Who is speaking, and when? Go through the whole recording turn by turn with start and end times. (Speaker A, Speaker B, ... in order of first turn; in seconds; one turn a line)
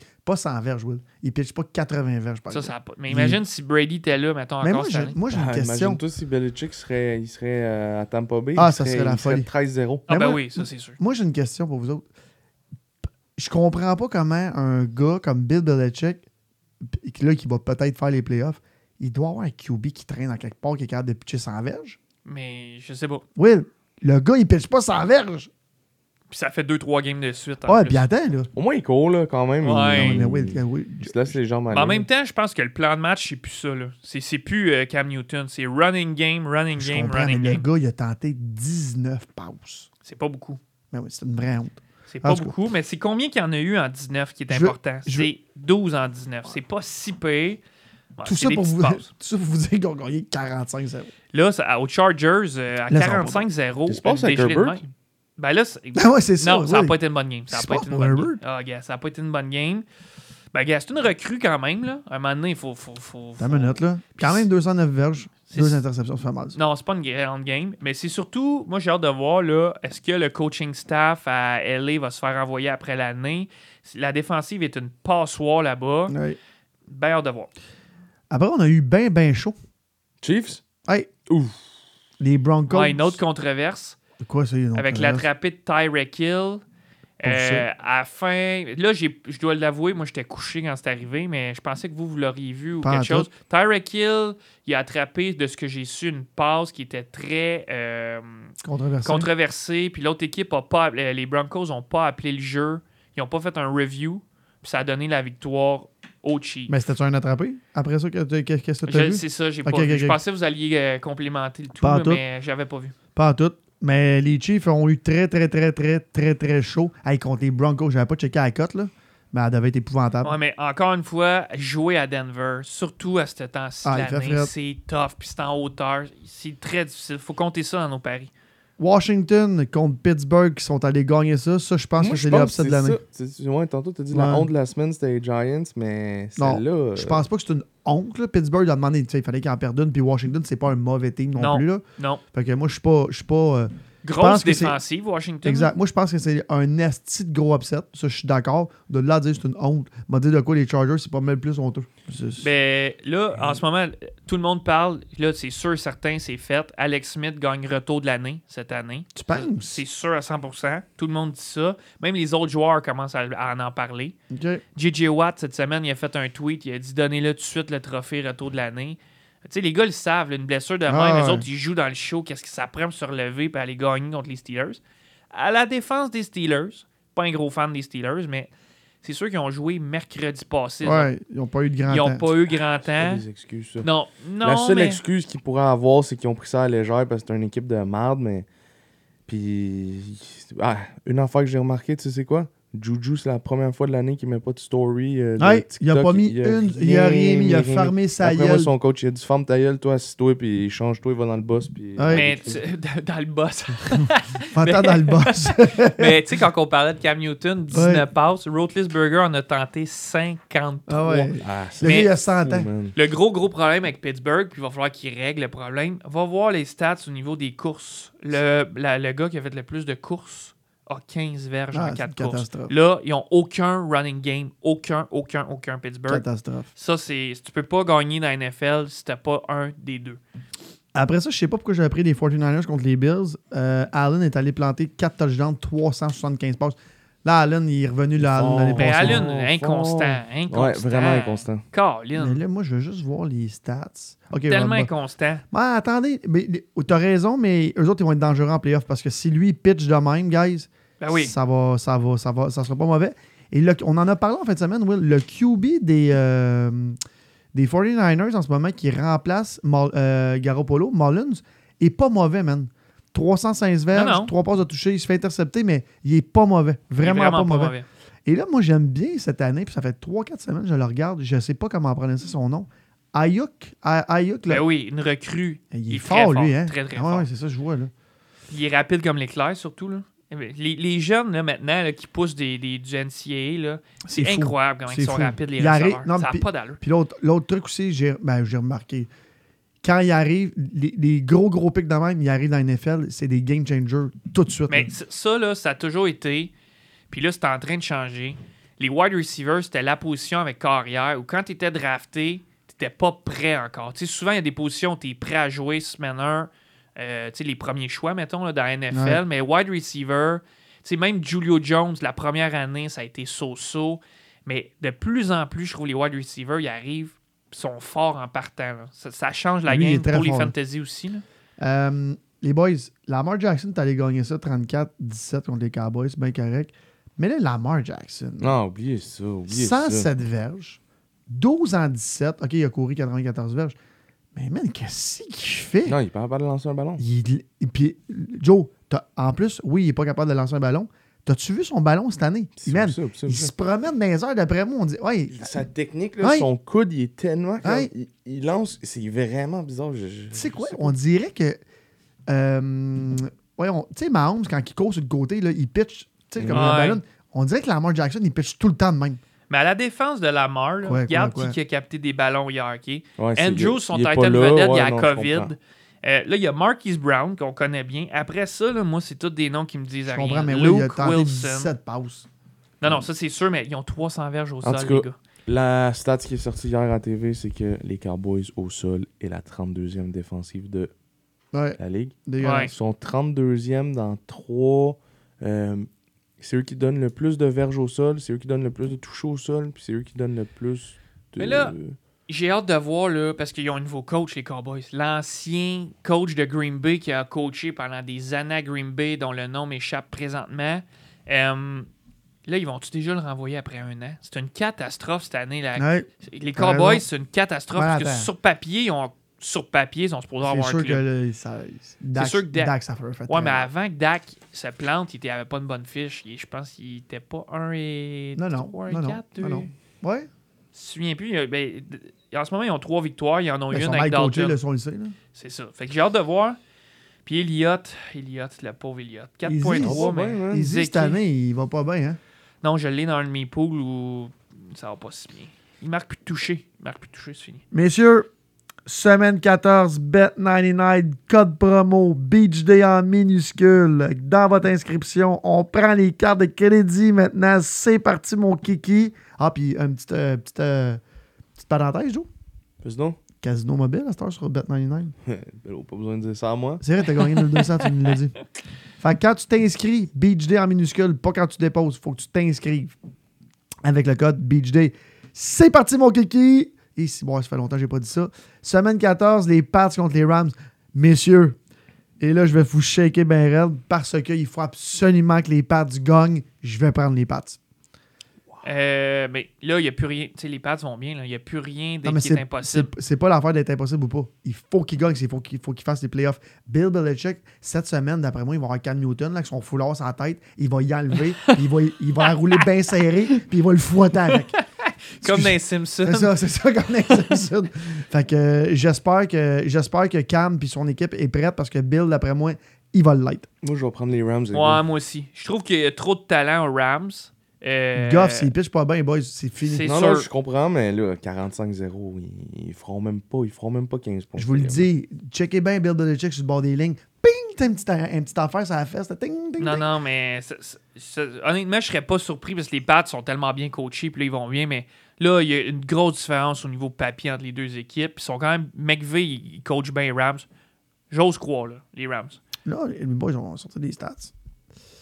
Speaker A: 0.2-3.4
Speaker B: 2.5-5.2
Speaker A: 4.6-6.0
Speaker C: 5.3-10.1
Speaker A: 8.6-9.5
Speaker B: 10.1-11.0
Speaker A: 10.1-12.1
Speaker A: 13.4-16.2
Speaker A: 16.9-22.0
Speaker B: 22.2-23.2
Speaker A: 23.4-25.5
Speaker B: 26.3-28.0
Speaker A: 27.7-28.5
Speaker C: 28.6-32.1
Speaker B: 29.6-30.2
Speaker A: 29.9-31.4
Speaker B: 31.7-37.6
Speaker A: 36.8-39.9
Speaker B: 40.0-40.6
Speaker A: 40.9-42.5
Speaker B: 42.1-47.6
Speaker A: 44.5-45.3
Speaker B: 48.2-49.1
Speaker A: 48.2-51.1
Speaker B: 51.3-59.9
Speaker A: 52.9-53.5
Speaker C: 53.9-54.8
Speaker A: 56.0-57.0
Speaker A: 57.5-58.4
Speaker B: 60.5-64.5
Speaker A: 63.4-66.6
Speaker B: 65.5-65.8
Speaker B: 66.5-76.2
Speaker A: 76.1-76.4
Speaker B: 76.9-77.5
Speaker A: 78.3-79.5
Speaker C: 80.2-80.6
Speaker C: 81.3-81.6
Speaker A: 82.2-83.2
Speaker B: 82.7-84.0
Speaker A: 84.2-85.2
Speaker B: 84.8-86.6
Speaker B: 87.2-98.5
Speaker A: 87.2-87.7
Speaker A: 92.8-93.3
Speaker A: 98.6-99.3
Speaker B: 99.0-106.8
Speaker A: 106.7-110.2
Speaker B: 108.9-113.0
Speaker A: 111.8-112.2
Speaker A: 113.2-120.4
Speaker B: 120.2-128.3
Speaker A: 123.8-124.5
Speaker A: 128.8-133.0
Speaker C: 132.0-137.2
Speaker A: 134.1-134.5
Speaker A: 136.4-141.8
Speaker B: 141.4-142.2
Speaker A: 142.3-144.8
Speaker B: 144.0-145.7
Speaker A: 145.4-152.5
Speaker B: 152.4-164.2
Speaker A: 159.2-159.8
Speaker A: 164.3-164.6
Speaker B: 164.8-174.8
Speaker A: 170.9-171.4
Speaker B: 175.3-178.5
Speaker B: 179.0-181.1
Speaker A: 180.8-182.3
Speaker B: 181.9-183.2
Speaker C: 182.8-183.9
Speaker B: 183.8-185.0
Speaker C: 184.4-188.5
Speaker C: 189.3-202.6
Speaker A: 195.4-198.7
Speaker A: 202.0-202.3
Speaker B: 202.1-211.3
Speaker A: 203.9-206.2
Speaker A: 207.7-208.1
Speaker A: 210.9-212.7
Speaker C: 211.4-213.0
Speaker B: 211.8-212.1
Speaker B: 212.9-226.2
Speaker A: 221.7-222.7
Speaker A: 226.1-226.7
Speaker B: 226.8-230.2
Speaker A: 230.9-239.2
Speaker C: 238.2-241.6
Speaker B: 238.8-242.4
Speaker A: 242.2-244.9
Speaker B: 244.5-245.4
Speaker A: 245.5-257.0
Speaker B: 251.0-251.3
Speaker A: 257.5-267.8
Speaker B: 263.9-264.3
Speaker B: 267.0-267.9
Speaker A: 268.3-274.6
Speaker B: 274.5-277.3
Speaker A: 275.7-277.9
Speaker B: 278.5-286.8
Speaker A: 284.1-289.1
Speaker A: 289.8-294.9
Speaker B: 294.7-296.5
Speaker B: 297.1-321.2
Speaker A: 308.9-309.2
Speaker A: 319.7-320.6
Speaker A: 321.6-328.6
Speaker C: 328.4-330.1
Speaker A: 329.5-333.8
Speaker A: 334.3-336.0
Speaker C: 335.9-337.0
Speaker A: 337.0-345.5
Speaker C: 342.6-343.5
Speaker C: 345.3-350.9
Speaker A: 346.2-346.5
Speaker A: 347.6-347.9
Speaker A: 350.3-351.6
Speaker A: 352.3-359.2
Speaker C: 356.4-356.7
Speaker B: 356.5-357.0
Speaker B: 359.5-371.7
Speaker A: 360.8-361.6
Speaker C: 363.2-365.5
Speaker A: 370.1-372.3
Speaker B: 372.8-375.1
Speaker C: 374.6-380.9
Speaker A: 381.5-382.7
Speaker C: 381.8-385.9
Speaker B: 382.4-382.7
Speaker C: 386.4-392.0
Speaker B: 391.4-391.8
Speaker B: 392.3-401.9
Speaker B: 402.5-411.0
Speaker A: 405.8-407.1
Speaker A: 407.8-408.3
Speaker A: 410.4-413.7
Speaker B: 412.2-412.7
Speaker B: 413.3-419.7
Speaker A: 418.4-420.3
Speaker B: 420.7-424.6
Speaker A: 423.7-425.1
Speaker B: 425.4-426.6
Speaker B: 427.2-431.2
Speaker A: 429.4-432.2
Speaker C: 429.8-430.7
Speaker B: 432.6-437.6
Speaker A: 437.7-438.3
Speaker A: 438.9-451.0
Speaker A: 451.6-452.3
Speaker C: 452.8-453.2
Speaker A: 453.4-455.1
Speaker C: 455.2-456.8
Speaker A: 456.8-458.4
Speaker A: 459.0-463.0
Speaker A: 463.8-471.6
Speaker A: 472.2-477.6
Speaker B: 478.6-482.9
Speaker A: 482.1-494.6
Speaker B: 494.3-496.3
Speaker A: 495.2-503.5
Speaker C: 503.6-504.8
Speaker B: 504.5-508.5
Speaker A: 507.9-509.9
Speaker B: 509.6-510.3
Speaker C: 509.9-514.8
Speaker A: 514.4-519.9
Speaker B: 519.6-530.5
Speaker B: 531.1-532.4
Speaker A: 532.6-534.3